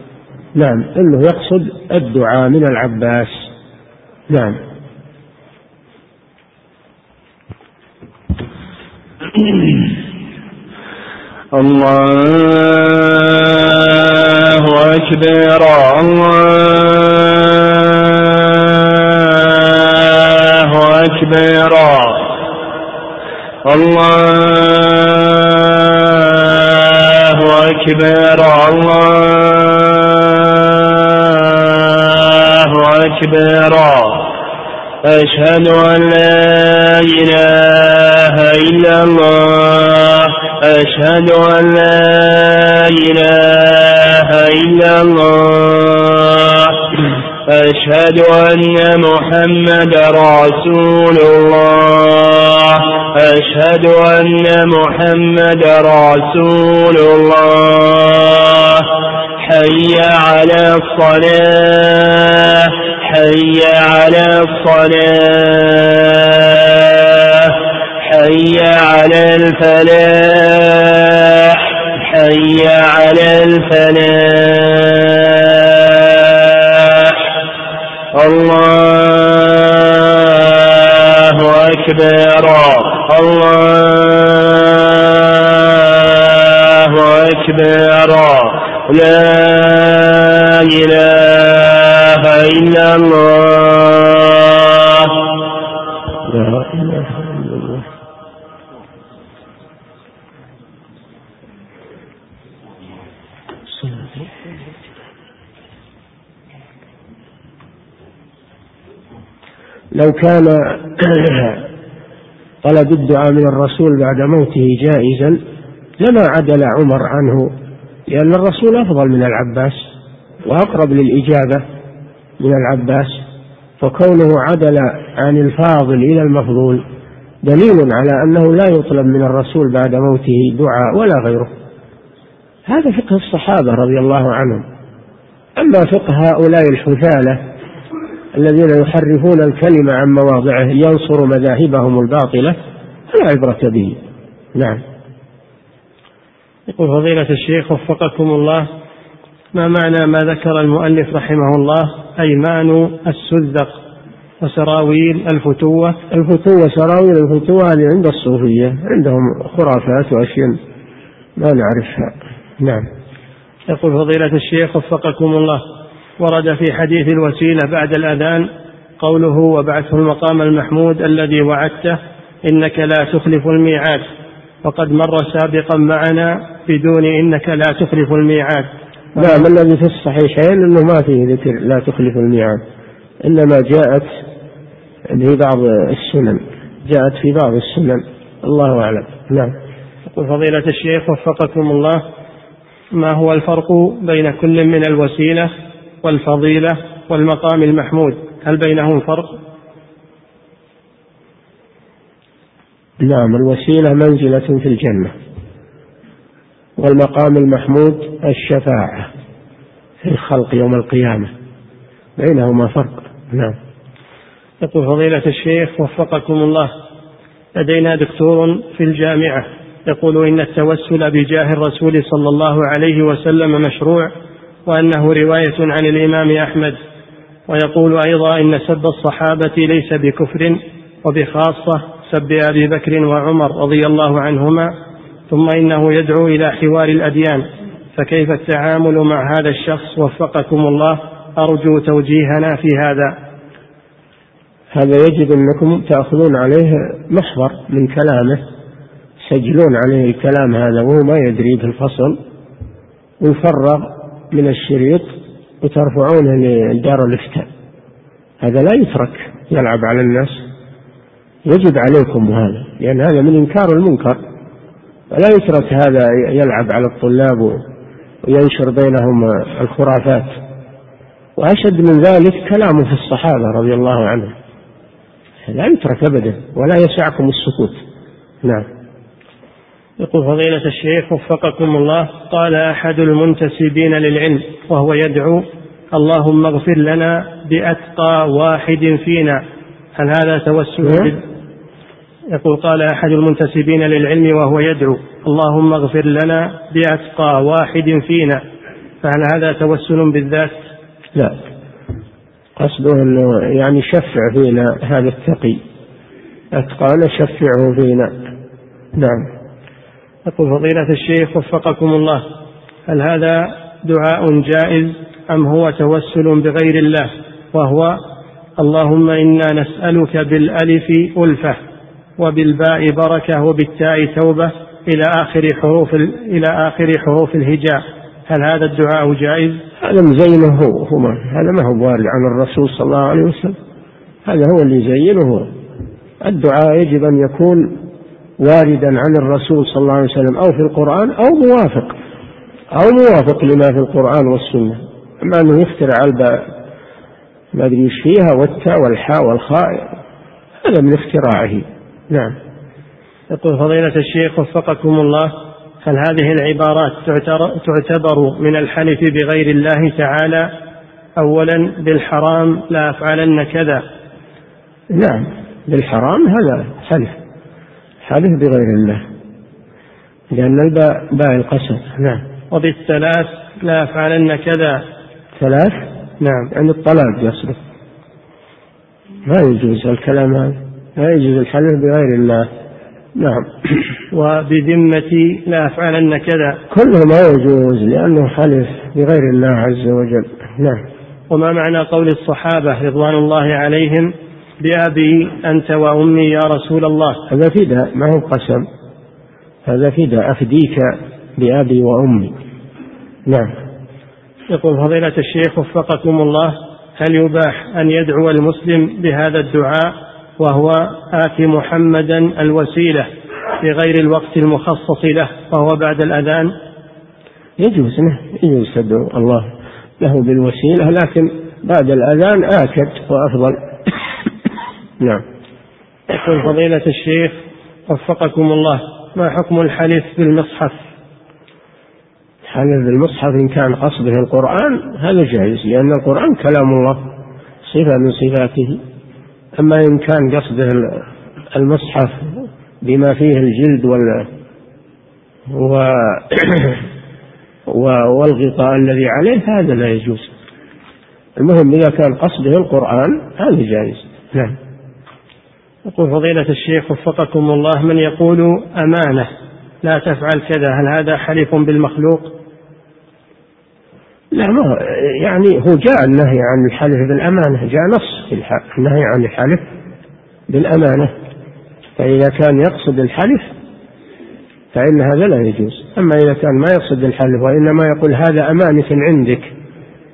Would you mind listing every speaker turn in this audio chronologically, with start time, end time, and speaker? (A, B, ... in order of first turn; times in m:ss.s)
0:00.5-0:03.5 A
0:04.3-0:04.6 A
0:09.4-0:10.0 B
0:11.5-0:22.4 B
0:23.6-0:34.3 B
0:35.0-1:17.2 B
1:18.1-1:35.3 B
1:36.2-1:37.8 A
1:49.9-1:51.7 A
1:52.6-1:55.4 A
1:56.0-1:57.5 A
1:58.1-1:59.8 A
2:00.4-2:01.6 A
2:02.4-2:03.2 A
2:03.8-2:06.8 A
2:07.4-2:11.5 A
2:12.7-2:14.6 A
2:15.6-2:17.4 A
2:18.4-2:22.6 A
2:23.1-2:24.0 A
2:24.5-2:24.8 A
2:26.7-2:28.7 C
2:29.5-2:33.8 C
2:34.4-2:36.0 C
2:36.1-2:40.6 A
2:41.4-2:42.8 A
2:43.7-2:45.6 C
2:46.2-2:48.5 C
2:49.0-2:54.0 C
2:54.6-2:59.4 C
2:59.2-3:02.6 A
3:03.2-3:04.2 A
3:05.1-3:09.5 A
3:10.1-3:12.0 C
3:12.9-3:15.5 C
3:16.0-3:19.3 C
3:23.0-3:25.1 A
3:26.8-3:29.1 A
3:30.0-3:31.3 A
3:32.2-3:33.5 A
3:34.6-3:36.7 C
3:37.6-3:44.1 C
3:44.7-3:46.8 C
3:47.5-3:54.7 C
3:55.3-4:03.2 C
4:04.7-4:08.4 A
4:09.2-4:12.2 A
4:13.2-4:17.5 A
4:18.4-4:20.4 A
4:21.4-4:24.2 A
4:25.1-4:27.6 A
4:28.2-4:30.4 A
4:31.4-4:34.3 A
4:35.5-4:37.8 A
4:40.0-4:49.4 C
4:50.0-4:51.2 C
4:52.3-4:58.4 C
4:59.0-5:00.6 C
5:02.6-5:05.6 A
5:06.5-5:08.1 A
5:08.9-5:09.2 A
5:10.3-5:12.2 C
5:12.9-5:18.0 C
5:18.6-5:21.6 C
5:22.2-5:29.6 C
5:29.8-5:33.6 A
5:34.2-5:35.5 A
5:36.2-5:37.8 A
5:38.4-5:42.0 A
5:42.7-5:46.5 A
5:47.5-5:49.9 A
5:50.6-5:52.3 A
5:53.3-6:00.5 C
6:01.2-6:03.8 C
6:04.9-6:07.1 A
6:08.0-6:09.0 A
6:10.3-6:12.2 A
6:12.5-6:14.8 C
6:15.4-6:15.8 A
6:16.2-6:16.5 C
6:16.5-6:17.6 A
6:19.3-6:22.5 A
6:23.2-6:23.5 A
6:24.1-6:26.6 C
6:26.7-6:30.8 A
6:31.3-6:37.2 C
6:37.3-6:38.6 A
6:39.6-6:42.3 A
6:44.5-6:53.1 C
6:53.6-6:56.5 C
6:57.6-6:59.5 A
7:00.0-7:03.9 A
7:06.1-7:10.8 C
7:12.4-7:17.1 A
7:17.6-7:18.8 A
7:19.6-7:24.3 A
7:25.5-7:26.9 A
7:27.7-7:30.3 A
7:31.4-7:34.5 A
7:35.9-7:39.3 C
7:39.8-7:42.3 C
7:44.3-7:49.6 A
7:50.5-7:51.1 A
7:52.0-7:53.5 A
7:54.7-7:59.5 A